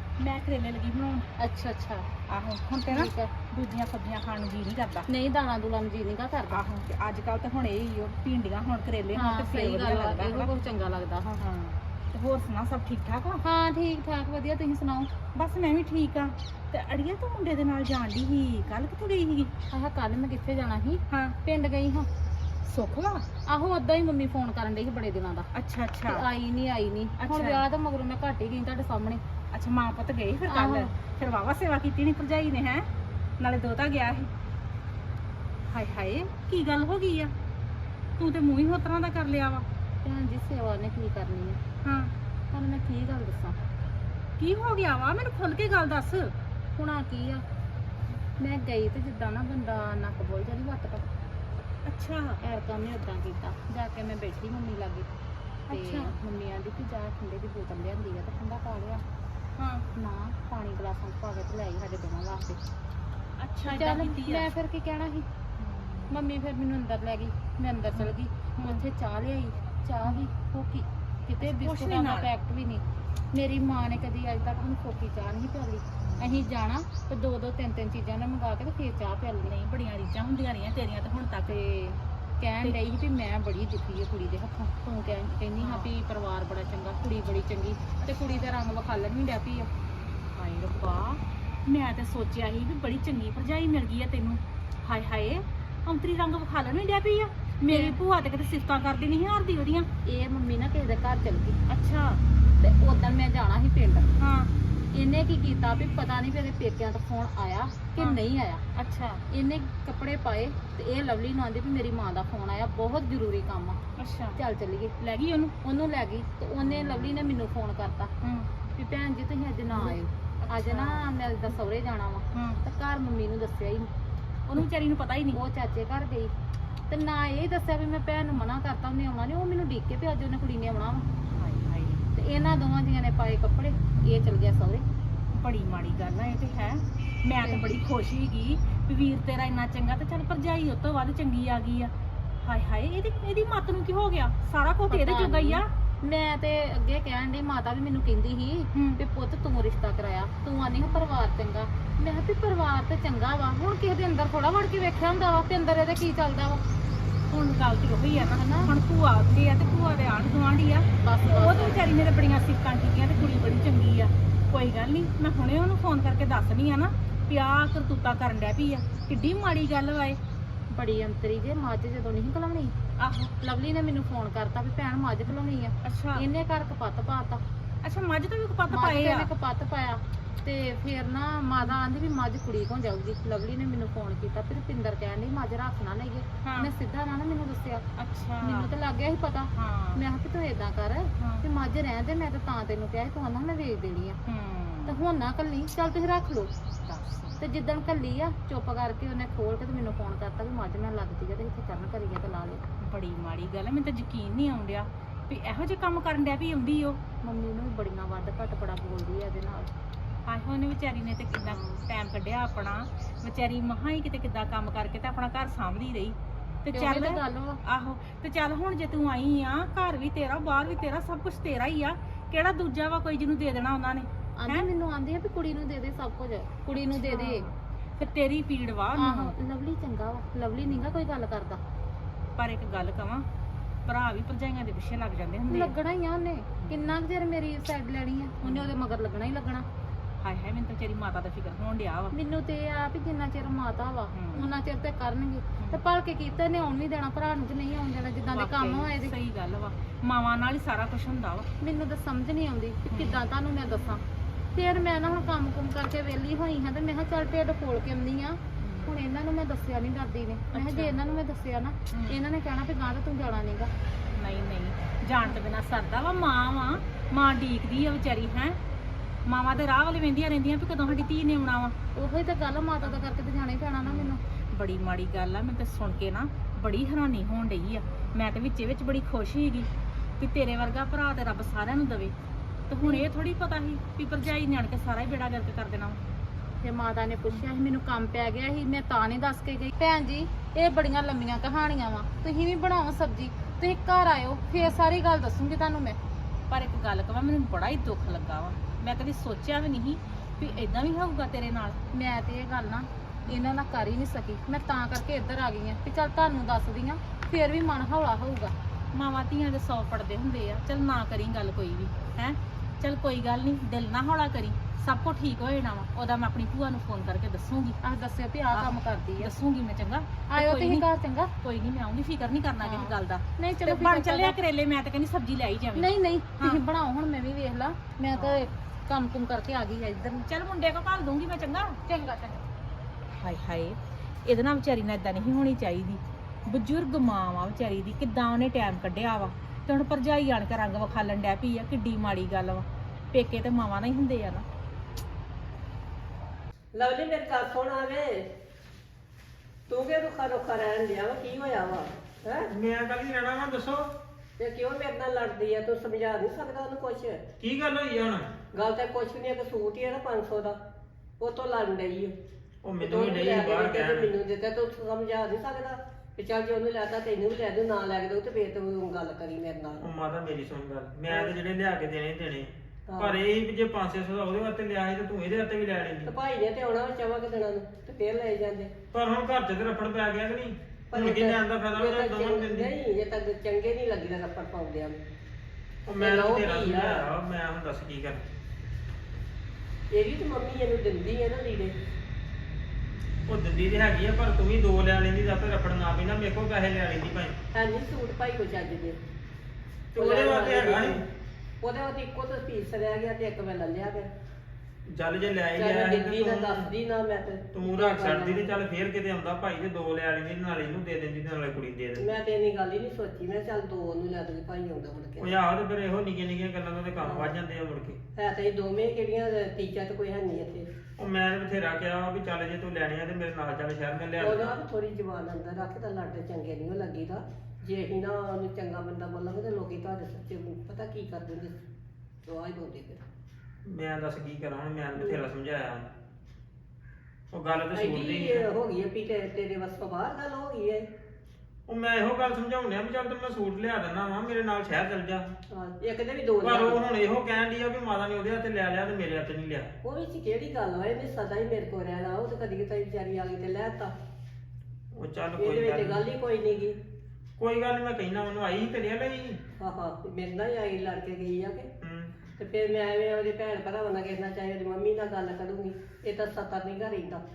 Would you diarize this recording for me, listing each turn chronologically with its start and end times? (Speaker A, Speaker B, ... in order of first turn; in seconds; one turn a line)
Speaker A: 0.2-1.2
Speaker B: 1.4-2.1
Speaker A: 2.3-5.1
Speaker B: 2.9-3.3
Speaker B: 5.1-6.6
Speaker A: 6.5-10.6
Speaker B: 9.1-11.5
Speaker A: 11.4-13.4
Speaker B: 13.4-15.1
Speaker A: 15.3-19.5
Speaker B: 19.7-22.1
Speaker A: 21.1-21.4
Speaker A: 22.6-23.2
Speaker B: 23.5-25.5
Speaker A: 25.5-26.3
Speaker B: 26.1-29.2
Speaker A: 27.2-27.6
Speaker A: 29.5-32.9
Speaker B: 30.4-30.9
Speaker A: 33.4-34.3
Speaker A: 35.7-37.3
Speaker A: 38.2-39.7
Speaker B: 40.0-41.6
Speaker A: 41.8-42.1
Speaker B: 42.5-43.5
Speaker A: 44.4-46.3
Speaker B: 46.7-47.4
Speaker B: 48.4-51.0
Speaker A: 51.9-52.4
Speaker B: 52.4-55.1
Speaker A: 55.7-56.1
Speaker B: 55.7-59.0
Speaker A: 59.6-59.9
Speaker B: 60.0-62.6
Speaker A: 63.4-64.5
Speaker B: 63.6-65.3
Speaker A: 65.6-66.2
Speaker B: 66.1-79.5
Speaker A: 67.9-68.8
Speaker A: 71.4-72.3
Speaker A: 76.0-76.5
Speaker A: 79.4-81.6
Speaker B: 81.5-89.7
Speaker A: 85.6-85.9
Speaker A: 88.0-88.5
Speaker A: 90.3-99.9
Speaker B: 97.7-98.0
Speaker B: 100.0-101.6
Speaker A: 101.7-102.2
Speaker B: 102.6-104.1
Speaker A: 104.2-104.5
Speaker B: 104.9-108.6
Speaker A: 108.8-109.2
Speaker B: 109.3-113.8
Speaker A: 114.0-114.4
Speaker B: 114.4-115.0
Speaker A: 115.0-115.5
Speaker B: 115.6-118.1
Speaker A: 116.6-117.3
Speaker A: 118.2-118.5
Speaker B: 118.8-123.9
Speaker A: 119.7-121.2
Speaker A: 122.3-122.6
Speaker A: 124.5-125.4
Speaker B: 125.3-126.3
Speaker B: 126.9-131.1
Speaker A: 131.3-132.0
Speaker B: 132.1-134.8
Speaker A: 135.3-145.7
Speaker B: 137.4-137.7
Speaker B: 144.9-156.6
Speaker A: 148.7-149.0
Speaker A: 157.3-170.2
Speaker B: 158.1-158.7
Speaker B: 161.0-161.9
Speaker B: 170.7-172.7
Speaker A: 173.0-173.3
Speaker B: 173.4-177.4
Speaker A: 175.8-176.2
Speaker A: 177.8-179.3
Speaker B: 178.7-187.8
Speaker A: 186.4-186.7
Speaker A: 188.0-188.7
Speaker B: 188.4-194.2
Speaker A: 189.6-190.0
Speaker A: 191.2-191.4
Speaker A: 194.2-195.0
Speaker B: 194.8-196.5
Speaker A: 196.8-197.4
Speaker B: 197.4-202.6
Speaker A: 202.8-207.0
Speaker B: 207.2-209.7
Speaker A: 210.2-224.7
Speaker B: 211.4-211.8
Speaker B: 216.7-217.6
Speaker B: 224.3-227.5
Speaker A: 227.1-229.3
Speaker B: 229.0-231.6
Speaker A: 232.4-233.2
Speaker A: 233.8-235.7
Speaker B: 235.5-239.6
Speaker A: 238.4-238.7
Speaker A: 240.2-242.1
Speaker B: 242.1-249.1
Speaker A: 244.1-244.5
Speaker A: 248.3-251.5
Speaker B: 251.6-254.0
Speaker A: 252.9-253.2
Speaker B: 254.5-263.7
Speaker A: 254.8-255.2
Speaker A: 258.6-258.9
Speaker A: 260.5-260.9
Speaker A: 261.9-262.2
Speaker A: 264.1-268.6
Speaker A: 269.3-271.8
Speaker B: 271.9-274.2
Speaker A: 273.8-282.1
Speaker A: 282.7-286.0
Speaker B: 286.6-296.0
Speaker A: 296.5-301.8
Speaker B: 301.9-308.5
Speaker A: 308.9-317.8
Speaker B: 317.8-319.3
Speaker A: 318.5-320.9
Speaker B: 320.3-321.3
Speaker A: 321.4-326.6
Speaker B: 322.6-324.3
Speaker B: 325.8-330.2
Speaker A: 328.1-328.5
Speaker A: 330.3-331.8
Speaker B: 331.9-332.4
Speaker A: 333.2-344.4
Speaker C: 346.7-348.2
Speaker C: 349.7-352.5
Speaker D: 352.5-353.9
Speaker C: 354.4-357.2
Speaker D: 357.4-358.3
Speaker C: 358.5-360.6
Speaker C: 361.2-362.1
Speaker D: 362.6-364.1
Speaker C: 362.8-369.8
Speaker D: 369.8-376.1
Speaker C: 371.1-371.3
Speaker C: 372.9-373.2
Speaker C: 376.0-378.7
Speaker D: 378.9-382.7
Speaker C: 380.9-385.0
Speaker D: 385.9-388.2
Speaker C: 385.9-387.1
Speaker C: 389.9-391.8
Speaker D: 393.3-397.3
Speaker C: 397.5-399.0
Speaker D: 399.9-401.0
Speaker C: 399.9-401.0
Speaker C: 401.6-404.1
Speaker D: 404.9-406.7
Speaker C: 405.6-408.5
Speaker D: 407.5-412.1
Speaker C: 412.0-415.3
Speaker D: 415.2-418.0
Speaker C: 417.0-417.4
Speaker C: 418.1-420.6
Speaker D: 421.0-424.6
Speaker C: 424.2-431.6
Speaker C: 432.2-433.0
Speaker D: 433.6-435.9
Speaker C: 435.0-435.2
Speaker D: 437.3-438.4
Speaker C: 437.7-440.8
Speaker D: 441.7-445.3
Speaker C: 445.5-446.8
Speaker D: 446.4-449.7
Speaker C: 449.8-453.9
Speaker D: 454.9-456.1
Speaker C: 455.4-456.8
Speaker D: 457.4-459.4
Speaker C: 459.6-461.7
Speaker D: 461.8-462.1
Speaker C: 462.4-467.2